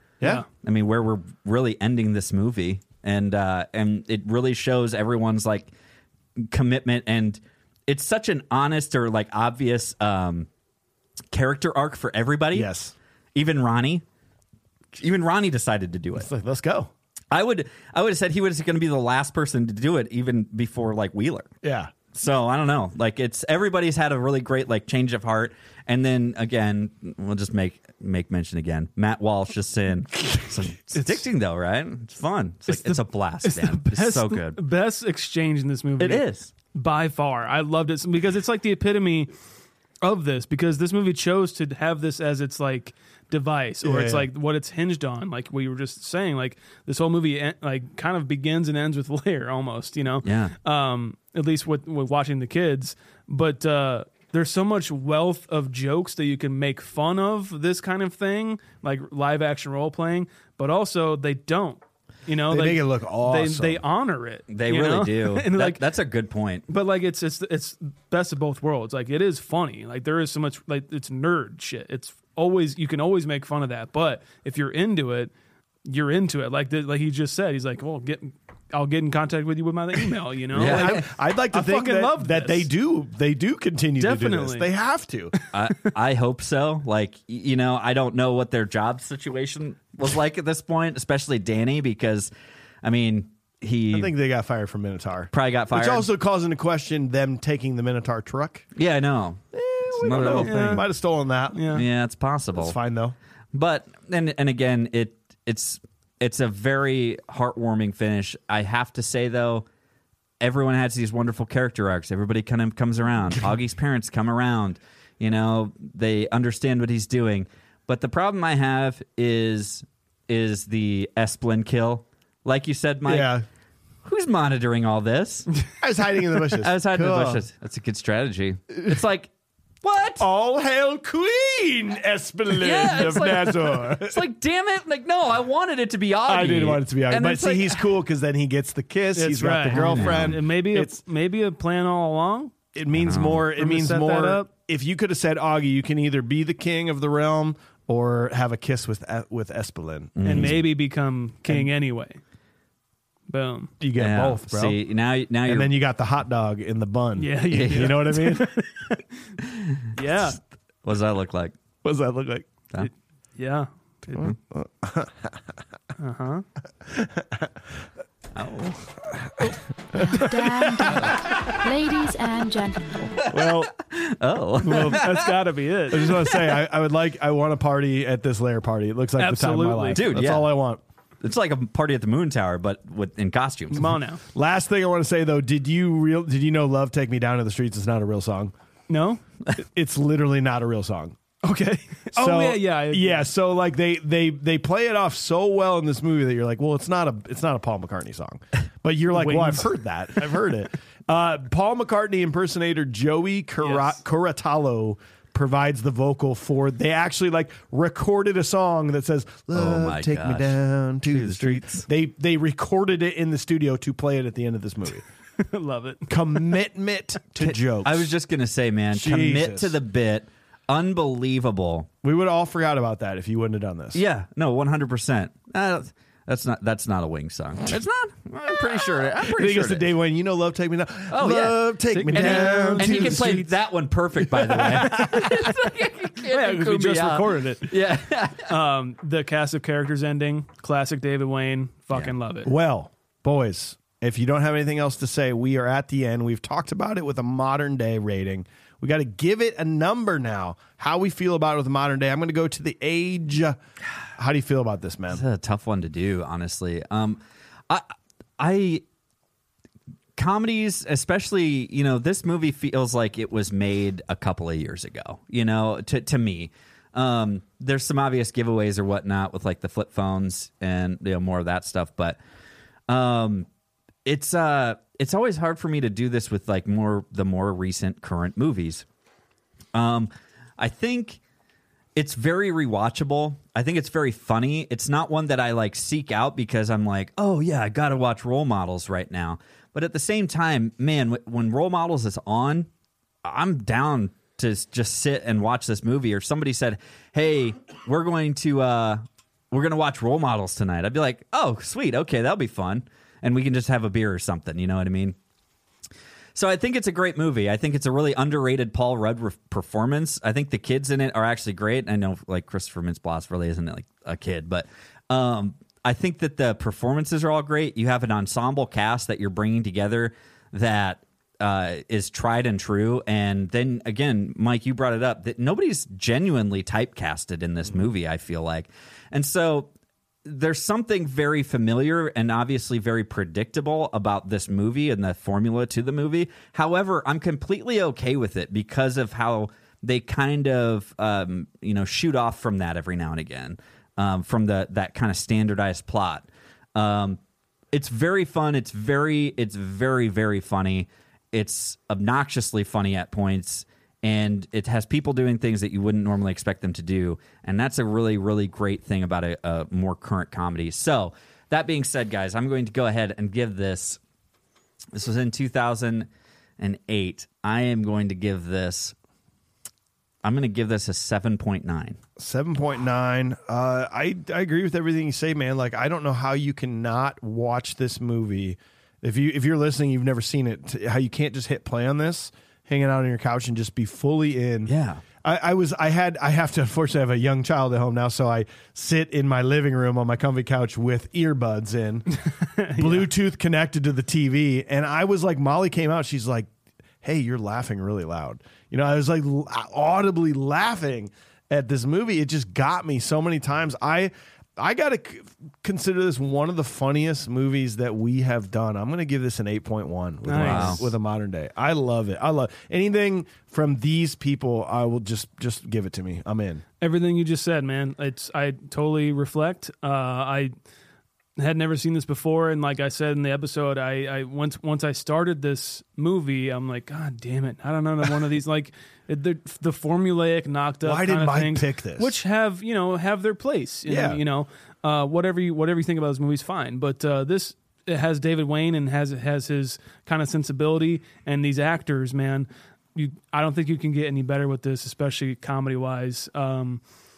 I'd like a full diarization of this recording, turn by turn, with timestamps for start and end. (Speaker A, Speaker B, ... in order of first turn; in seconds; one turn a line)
Speaker A: 0.5-5.7
Speaker A: 6.4-10.5
Speaker A: 11.3-12.7
Speaker B: 12.5-12.9
Speaker A: 13.3-14.0
Speaker A: 14.9-16.3
Speaker B: 16.2-16.9
Speaker A: 17.3-21.5
Speaker B: 21.6-21.9
Speaker A: 22.1-34.6
Speaker C: 32.7-39.3
Speaker A: 36.0-36.5
Speaker C: 40.0-65.8
Speaker B: 43.8-44.3
Speaker A: 50.2-50.5
Speaker B: 62.5-63.8
Speaker A: 64.5-66.6
Speaker C: 66.7-75.3
Speaker C: 75.8-82.7
Speaker A: 80.5-81.0
Speaker B: 80.5-85.3
Speaker C: 84.0-84.7
Speaker A: 85.5-92.3
Speaker A: 92.8-94.1
Speaker B: 93.9-98.7
Speaker A: 95.3-96.1
Speaker A: 98.8-100.8
Speaker B: 99.5-101.7
Speaker C: 100.1-100.9
Speaker C: 101.5-101.8
Speaker A: 101.7-102.8
Speaker B: 102.6-103.1
Speaker A: 103.5-109.7
Speaker A: 110.4-123.3
Speaker B: 123.0-123.4
Speaker A: 124.0-125.5
Speaker B: 125.8-127.4
Speaker A: 126.6-129.3
Speaker A: 129.8-130.2
Speaker B: 130.2-134.2
Speaker A: 132.6-137.8
Speaker B: 136.3-141.0
Speaker C: 139.1-142.6
Speaker A: 139.7-140.4
Speaker B: 142.7-150.6
Speaker A: 142.9-143.4
Speaker C: 143.6-144.5
Speaker A: 150.2-150.6
Speaker C: 150.2-152.2
Speaker C: 153.3-153.7
Speaker B: 153.8-154.8
Speaker A: 154.0-155.7
Speaker B: 155.4-158.5
Speaker C: 157.2-159.0
Speaker A: 157.5-158.0
Speaker A: 159.4-159.8
Speaker C: 159.9-160.4
Speaker A: 160.8-161.5
Speaker B: 161.8-162.5
Speaker C: 162.8-164.3
Speaker B: 164.1-165.4
Speaker C: 166.0-166.4
Speaker B: 166.8-167.5
Speaker A: 168.3-168.9
Speaker B: 169.2-170.2
Speaker D: 169.9-173.2
Speaker B: 170.8-171.1
Speaker B: 173.2-173.7
Speaker A: 173.3-175.3
Speaker C: 174.6-176.2
Speaker B: 174.7-175.1
Speaker B: 175.9-180.8
Speaker C: 179.2-180.0
Speaker A: 179.9-180.5
Speaker A: 181.2-183.9
Speaker C: 183.7-184.2
Speaker B: 184.3-188.5
Speaker C: 188.9-189.2
Speaker B: 189.6-191.2
Speaker C: 191.4-193.2
Speaker B: 192.1-215.0
Speaker C: 199.1-199.7
Speaker C: 203.6-204.0
Speaker A: 209.5-211.9
Speaker C: 215.4-216.6
Speaker B: 216.1-218.1
Speaker A: 217.4-221.9
Speaker B: 218.9-219.7
Speaker B: 222.0-224.0
Speaker A: 223.9-229.9
Speaker B: 229.2-233.3
Speaker A: 231.1-238.5
Speaker C: 231.9-233.5
Speaker C: 234.3-237.8
Speaker B: 234.7-235.0
Speaker C: 238.4-242.5
Speaker B: 242.4-253.6
Speaker B: 254.2-255.2
Speaker A: 255.1-258.8
Speaker A: 260.1-272.2
Speaker A: 272.9-273.5
Speaker A: 274.1-278.8
Speaker A: 279.7-281.2
Speaker A: 281.9-292.7
Speaker A: 293.2-305.1
Speaker A: 306.3-329.7
Speaker A: 330.2-347.2
Speaker A: 347.7-364.0
Speaker A: 364.9-368.9
Speaker A: 370.2-372.0
Speaker B: 372.2-384.7
Speaker A: 384.6-385.0
Speaker B: 385.2-392.1
Speaker C: 392.6-393.1
Speaker B: 392.7-396.5
Speaker B: 397.0-416.6
Speaker C: 410.2-410.9
Speaker A: 410.4-410.9
Speaker C: 416.8-420.5
Speaker C: 421.4-446.8
Speaker B: 430.8-432.1
Speaker B: 433.9-434.2